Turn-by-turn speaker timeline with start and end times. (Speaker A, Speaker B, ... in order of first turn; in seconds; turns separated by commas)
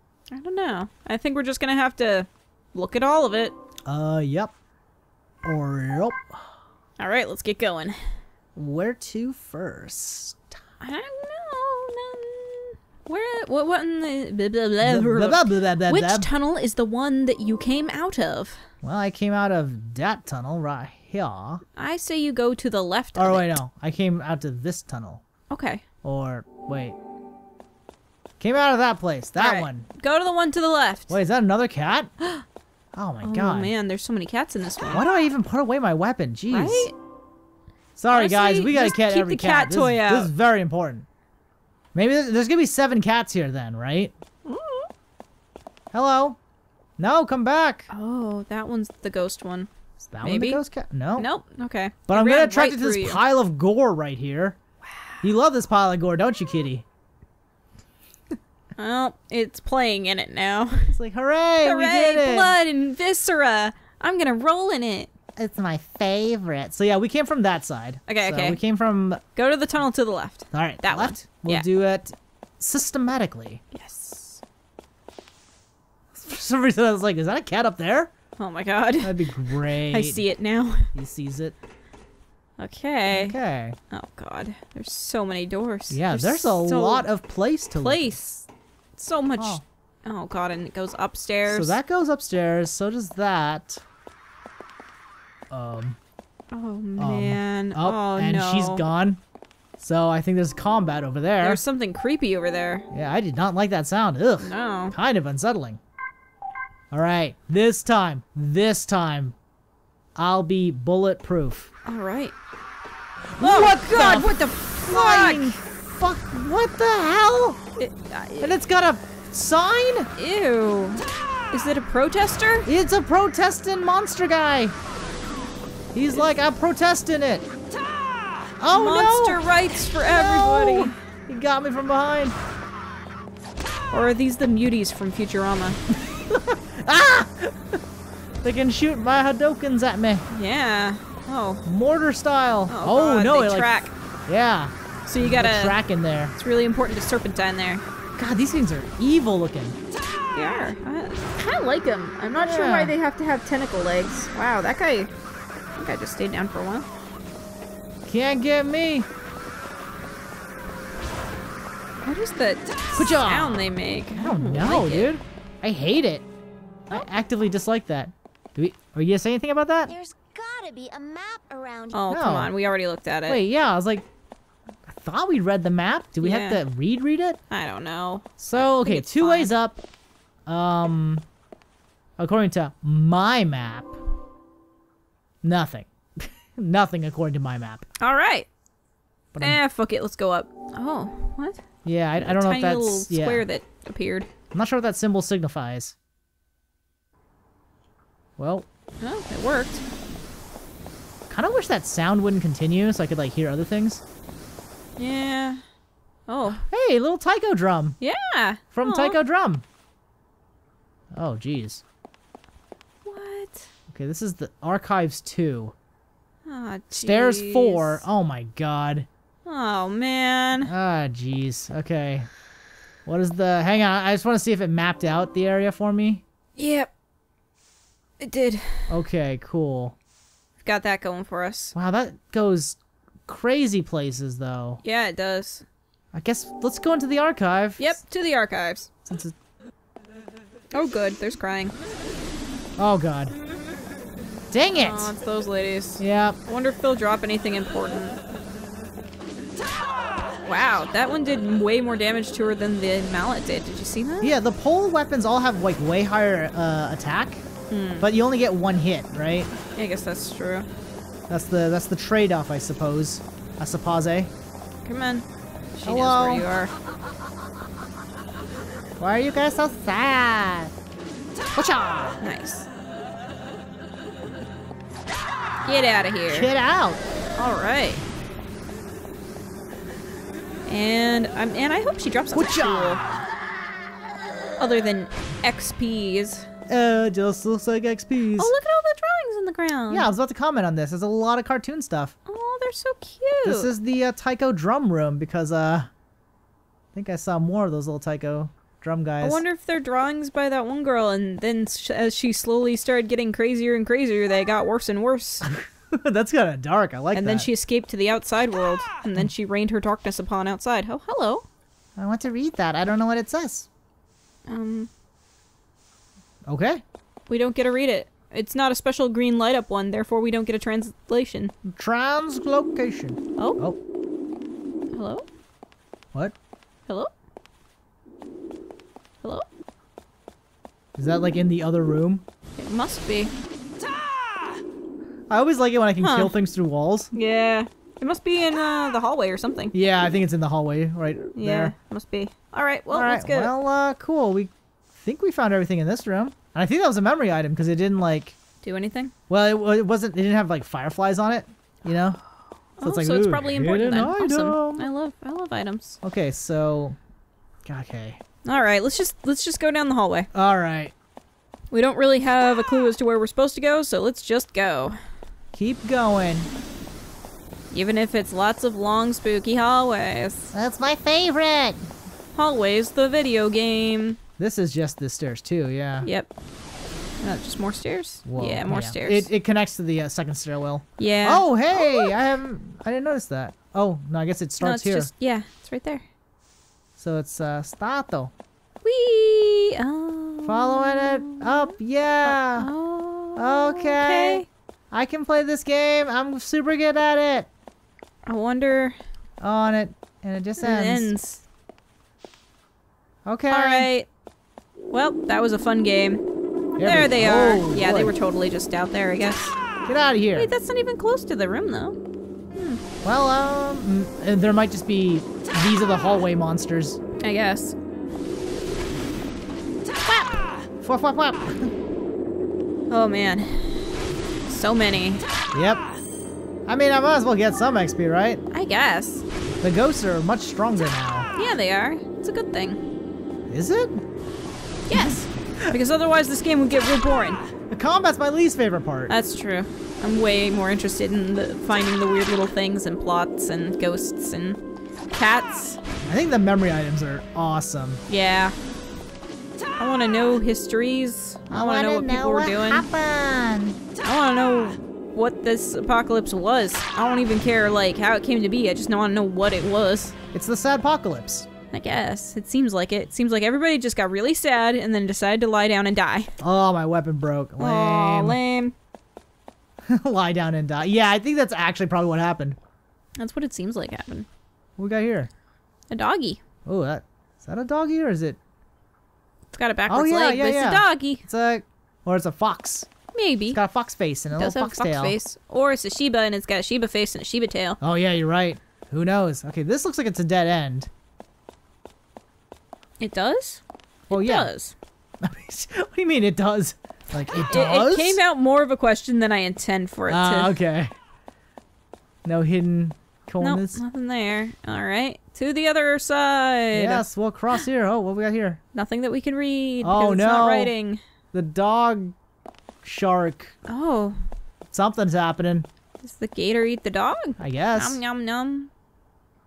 Speaker A: 0.3-3.5, Speaker B: 3.9-4.5, Speaker B: 5.4-6.4, Speaker A: 7.0-8.0, Speaker B: 8.6-10.6, Speaker A: 10.8-18.6, Speaker B: 14.8-16.3, Speaker B: 18.8-21.6, Speaker A: 21.8-23.6, Speaker B: 23.2-25.2, Speaker A: 25.5-25.8, Speaker B: 26.0-27.0, Speaker B: 28.4-29.9, Speaker A: 29.4-31.2, Speaker B: 31.1-32.1, Speaker A: 32.2-32.5, Speaker B: 33.0-33.7, Speaker A: 33.2-35.0, Speaker B: 34.9-36.9, Speaker A: 36.5-36.9, Speaker B: 38.0-41.1, Speaker A: 38.1-40.3, Speaker B: 41.9-44.1, Speaker A: 44.5-44.9, Speaker B: 45.9-46.4, Speaker B: 47.0-47.9, Speaker A: 47.9-49.7, Speaker B: 50.0-51.3, Speaker A: 50.2-50.6, Speaker A: 51.2-53.2, Speaker B: 52.1-54.6, Speaker A: 54.9-55.2, Speaker B: 55.2-56.9, Speaker A: 58.8-60.9, Speaker B: 60.9-62.5, Speaker A: 61.6-65.1, Speaker B: 65.4-69.2, Speaker A: 68.1-68.6, Speaker A: 69.4-71.7, Speaker B: 70.5-73.6, Speaker A: 73.7-74.4, Speaker B: 76.1-78.1, Speaker A: 78.4-79.2, Speaker B: 79.0-80.2, Speaker A: 79.9-80.9, Speaker B: 80.9-81.6, Speaker A: 82.6-83.4, Speaker B: 83.1-83.8, Speaker A: 83.9-87.1, Speaker B: 85.9-88.1, Speaker A: 87.8-91.8, Speaker B: 91.5-93.8, Speaker B: 95.5-96.0, Speaker A: 96.5-98.8, Speaker B: 97.0-99.2, Speaker B: 99.8-101.6, Speaker A: 101.4-102.9, Speaker B: 102.9-105.8, Speaker A: 104.4-105.0, Speaker B: 106.9-109.4, Speaker B: 110.2-111.7, Speaker A: 111.8-112.3, Speaker B: 113.3-117.6, Speaker A: 113.4-115.6, Speaker A: 117.8-118.5, Speaker B: 118.4-120.1, Speaker A: 120.2-122.7, Speaker B: 122.7-124.8, Speaker B: 125.9-127.5, Speaker B: 128.6-129.4, Speaker A: 128.7-131.0, Speaker B: 130.1-132.4, Speaker A: 133.9-135.8, Speaker B: 136.3-137.8, Speaker B: 138.4-140.2, Speaker A: 140.3-141.6, Speaker B: 141.7-143.7, Speaker A: 142.7-143.9, Speaker B: 144.3-146.3, Speaker A: 145.1-145.8, Speaker A: 146.4-147.8, Speaker B: 148.2-149.8, Speaker A: 150.3-155.1, Speaker B: 152.4-152.9, Speaker A: 155.8-156.9, Speaker B: 158.1-159.1, Speaker A: 162.0-165.1, Speaker B: 163.0-166.2, Speaker B: 166.9-169.9, Speaker C: 169.9-172.1, Speaker A: 171.9-173.4, Speaker B: 172.1-172.5, Speaker B: 173.3-174.1, Speaker B: 174.9-177.4, Speaker A: 176.2-176.6, Speaker A: 177.5-179.5, Speaker B: 178.4-179.8, Speaker B: 180.5-181.2, Speaker B: 182.2-184.0, Speaker B: 185.4-187.9, Speaker A: 188.0-188.5, Speaker B: 189.3-189.6, Speaker A: 189.4-191.6, Speaker B: 191.8-193.5, Speaker A: 192.2-194.3, Speaker B: 194.5-195.9, Speaker B: 198.4-198.7, Speaker A: 199.0-199.8, Speaker B: 201.3-204.0, Speaker A: 205.0-205.6, Speaker A: 206.3-206.6, Speaker B: 206.7-208.0, Speaker A: 208.0-209.2, Speaker B: 208.7-209.6, Speaker B: 211.1-211.8, Speaker A: 213.1-213.7, Speaker B: 213.9-215.8, Speaker A: 216.5-218.0, Speaker B: 216.9-219.1, Speaker A: 219.4-220.7, Speaker B: 220.6-222.3, Speaker B: 223.1-226.2, Speaker A: 226.6-226.9, Speaker A: 228.2-228.9, Speaker B: 228.9-230.0, Speaker A: 230.6-231.7, Speaker B: 231.7-234.8, Speaker A: 234.8-235.7, Speaker B: 236.1-238.0, Speaker A: 237.8-238.9, Speaker B: 239.1-239.3, Speaker A: 240.7-241.8, Speaker B: 242.8-243.3, Speaker B: 244.5-245.1, Speaker A: 244.7-248.2, Speaker B: 246.0-246.4, Speaker A: 250.4-254.4, Speaker B: 254.2-257.4, Speaker A: 257.7-258.1, Speaker B: 258.0-259.5, Speaker A: 259.8-260.7, Speaker B: 261.3-264.3, Speaker A: 264.9-265.2, Speaker A: 265.8-266.7, Speaker B: 265.9-266.5, Speaker B: 269.0-270.7, Speaker B: 271.6-272.2, Speaker A: 272.2-272.7, Speaker A: 275.7-276.5, Speaker B: 276.3-277.0, Speaker A: 277.4-278.0, Speaker A: 280.7-283.0, Speaker B: 282.3-283.2, Speaker A: 284.6-286.5, Speaker B: 286.7-288.5, Speaker A: 288.4-290.1, Speaker B: 289.9-292.1, Speaker A: 292.3-293.7, Speaker B: 293.4-295.9, Speaker B: 296.9-299.4, Speaker A: 299.2-305.4, Speaker B: 305.4-307.5, Speaker A: 307.1-311.4, Speaker B: 312.0-313.7, Speaker A: 314.5-314.9, Speaker B: 316.5-316.8, Speaker A: 317.3-321.5, Speaker B: 321.6-323.8, Speaker A: 324.9-325.3, Speaker B: 331.0-332.2, Speaker A: 332.6-333.3, Speaker B: 335.3-337.1, Speaker A: 336.0-336.3, Speaker A: 337.1-339.7, Speaker B: 339.7-341.7, Speaker A: 341.4-343.5, Speaker B: 342.9-348.4, Speaker A: 348.6-349.1, Speaker B: 349.3-352.2, Speaker A: 352.8-356.0, Speaker B: 352.8-354.9, Speaker B: 356.0-357.0, Speaker B: 357.7-358.2, Speaker A: 358.4-360.3, Speaker B: 360.3-360.9, Speaker A: 361.7-365.0, Speaker B: 365.5-366.5, Speaker A: 367.7-370.5, Speaker B: 370.5-371.9, Speaker A: 372.4-374.2, Speaker B: 374.4-376.1, Speaker A: 376.0-376.3, Speaker A: 377.2-379.3, Speaker B: 378.3-385.1, Speaker A: 381.0-382.1, Speaker A: 384.6-386.0, Speaker B: 387.0-388.3, Speaker A: 388.8-391.7, Speaker B: 390.4-392.7, Speaker A: 392.2-394.5, Speaker B: 393.4-397.5, Speaker A: 398.3-399.0, Speaker B: 399.4-401.1, Speaker A: 400.6-401.4, Speaker B: 403.3-403.9, Speaker A: 403.5-404.1, Speaker A: 404.9-406.2, Speaker B: 406.8-408.1, Speaker A: 406.8-409.6, Speaker B: 409.9-410.5, Speaker A: 410.4-412.0, Speaker A: 412.5-412.8, Speaker B: 413.0-417.0, Speaker A: 417.2-417.8, Speaker A: 420.1-420.4, Speaker B: 420.8-421.7, Speaker A: 422.9-425.2, Speaker B: 425.5-425.8, Speaker B: 426.7-428.4, Speaker A: 428.5-429.2, Speaker B: 429.6-431.3, Speaker A: 431.4-432.8, Speaker B: 433.5-434.0, Speaker A: 434.9-437.4, Speaker B: 434.9-435.8, Speaker B: 437.7-439.1, Speaker A: 439.1-444.6, Speaker A: 445.1-445.8, Speaker B: 446.1-448.0, Speaker A: 448.1-448.5, Speaker A: 449.8-452.9, Speaker B: 451.5-453.8, Speaker A: 454.0-460.1, Speaker B: 460.3-461.5, Speaker A: 461.7-466.3, Speaker B: 466.4-468.4, Speaker A: 467.6-468.8, Speaker B: 469.9-472.6, Speaker A: 473.2-474.3, Speaker B: 474.8-475.3, Speaker A: 475.9-476.4, Speaker B: 476.7-478.4, Speaker A: 479.5-481.2, Speaker B: 479.9-482.9, Speaker A: 483.1-483.6, Speaker B: 483.5-485.2, Speaker A: 484.4-487.8, Speaker B: 487.8-490.9, Speaker A: 493.0-494.8, Speaker B: 494.1-494.5, Speaker B: 495.2-498.2, Speaker A: 497.4-500.6, Speaker B: 500.1-500.9, Speaker B: 502.2-503.8, Speaker A: 503.4-507.0, Speaker B: 506.7-508.6, Speaker A: 508.8-511.0, Speaker B: 509.8-510.7, Speaker B: 511.3-512.1, Speaker B: 512.8-513.5, Speaker A: 513.7-514.2, Speaker B: 514.7-515.7, Speaker A: 516.0-518.7, Speaker B: 517.4-518.0